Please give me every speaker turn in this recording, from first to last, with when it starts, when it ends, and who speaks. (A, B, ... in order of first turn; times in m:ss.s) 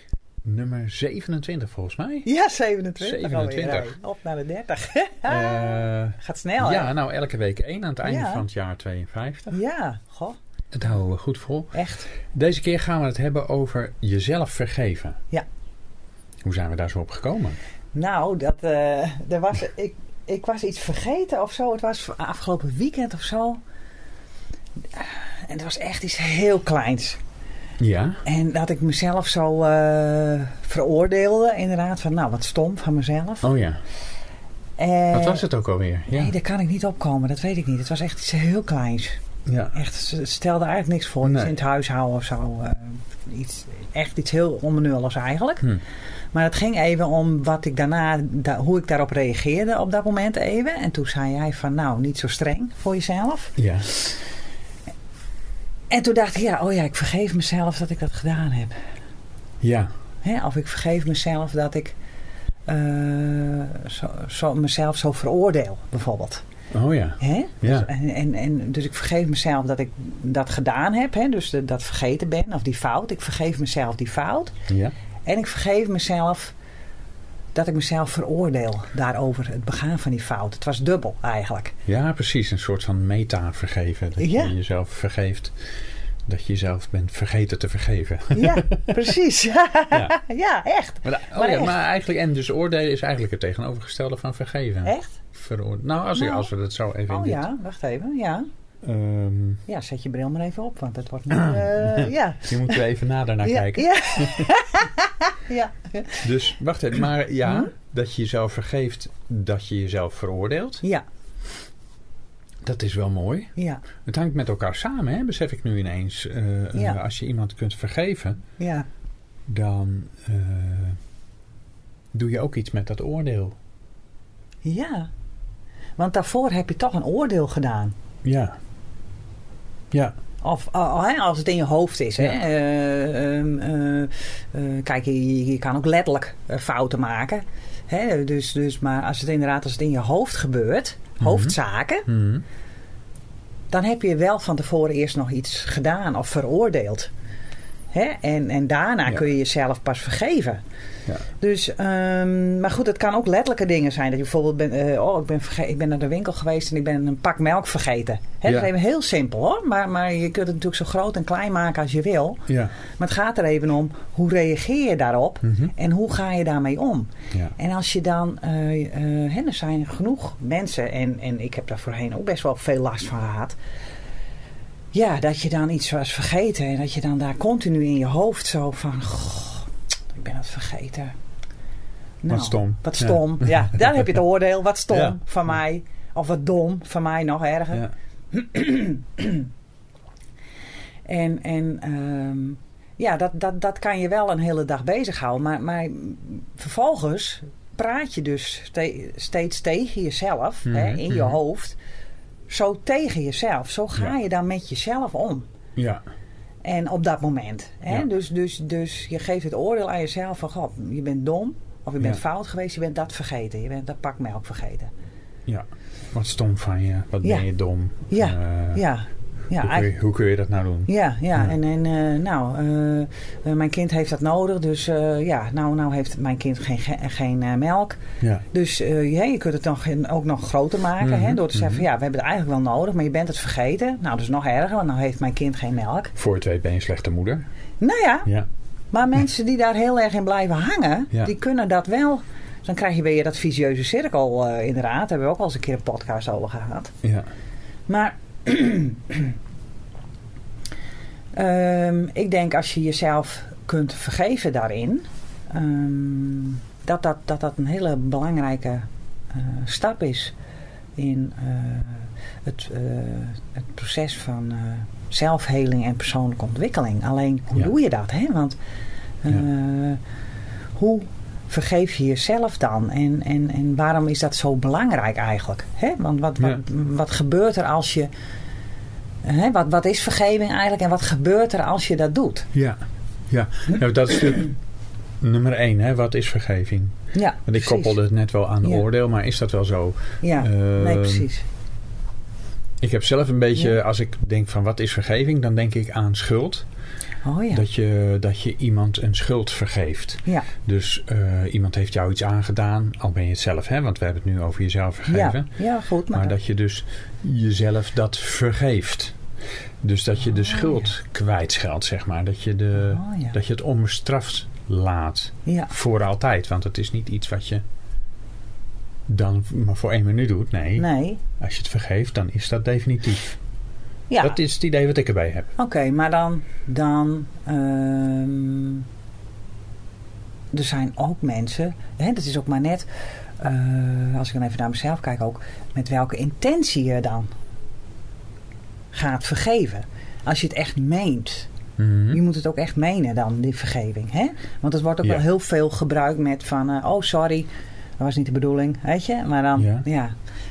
0:00.4-0:02.3 A
0:02.2-0:06.9 B
0:03.0-0:04.0 A
0:05.3-0:09.6 A
0:08.0-0:08.4 B
0:09.5-0:10.4 B
0:10.7-0:15.2 A
0:11.7-0:12.1 B
0:16.4-0:17.6 A
0:17.9-0:23.6 B
0:24.9-0:27.2 B
0:27.8-0:28.2 A
0:28.2-0:33.5 B
0:33.4-0:33.8 A
0:34.8-0:35.5 B
0:35.1-0:36.3 A
0:36.1-0:39.2 B
0:39.5-0:39.8 A
0:39.7-0:45.7 B
0:41.2-0:41.5 A
0:46.3-0:54.1 B
0:53.6-0:53.9 A
0:55.9-0:58.8 B
0:59.6-0:59.9 A
1:00.2-1:02.0 B
1:02.7-1:06.4 B
1:06.7-1:07.9 A
1:07.2-1:14.5 B
1:14.7-1:15.0 A
1:15.3-1:16.6 B
1:17.5-1:21.8 B
1:21.9-1:25.6 A
1:24.2-1:24.5 B
1:26.3-1:29.0 A
1:28.3-1:31.8 B
1:31.0-1:37.4 A
1:34.8-1:35.2 B
1:36.2-1:36.5 B
1:37.1-1:38.5 B
1:38.8-1:39.6 A
1:39.7-1:42.8 B
1:41.3-1:44.5 A
1:43.4-1:46.2 B
1:46.2-1:50.8 A
1:47.4-1:47.7 B
1:52.6-1:58.4 A
1:53.6-1:53.8 B
1:56.7-1:57.0 B
1:58.6-1:58.9 B
1:59.5-2:01.0 A
2:02.1-2:03.6 A
2:04.6-2:05.1 B
2:06.0-2:07.9 B
2:08.2-2:08.6 A
2:10.4-2:22.1 B
2:21.2-2:21.5 A
2:22.1-2:22.4 A
2:23.7-2:27.1 B
2:27.9-2:30.6 B
2:31.4-2:42.4 B
2:42.5-2:42.8 A
2:43.0-2:53.6 B
2:45.4-2:45.7 A
2:54.9-3:01.1 B
3:02.2-3:09.5 B
3:02.3-3:04.0 A
3:04.9-3:05.2 A
3:11.1-3:21.8 B
3:20.7-3:21.4 A
3:22.5-3:25.5 B
3:25.8-3:26.0 A
3:26.6-3:34.9 B
3:35.5-3:38.8 A
3:38.1-3:39.9 B
3:39.6-3:41.5 A
3:40.9-3:48.0 B
3:48.5-3:56.1 B
3:51.0-3:51.8 A
3:56.2-3:57.5 A
3:57.8-3:58.3 B
3:58.9-4:06.9 B
4:07.9-4:09.4 B
4:11.4-4:20.3 B
4:21.0-4:28.6 B
4:29.2-4:30.0 B
4:30.8-4:38.1 B
4:39.2-4:42.5 B
4:42.5-4:44.6 A
4:45.2-4:51.3 A
4:47.1-4:48.0 B
4:50.2-4:51.4 B
4:52.8-4:56.6 A
4:57.2-4:57.6 B
4:57.5-5:05.5 A
5:05.1-5:06.3 B
5:06.1-5:09.2 A
5:09.8-5:17.6 A
5:12.8-5:13.4 B
5:15.5-5:15.7 B
5:19.1-5:20.9 A
5:20.8-5:21.2 B
5:21.4-5:23.4 A
5:24.1-5:24.4 B
5:24.2-5:25.5 A
5:25.6-5:28.9 B
5:30.5-5:32.9 B
5:33.4-5:37.3 B
5:38.9-5:41.5 B
5:41.8-5:42.2 A
5:42.1-5:47.5 B
5:48.0-5:50.1 B
5:49.6-5:49.9 A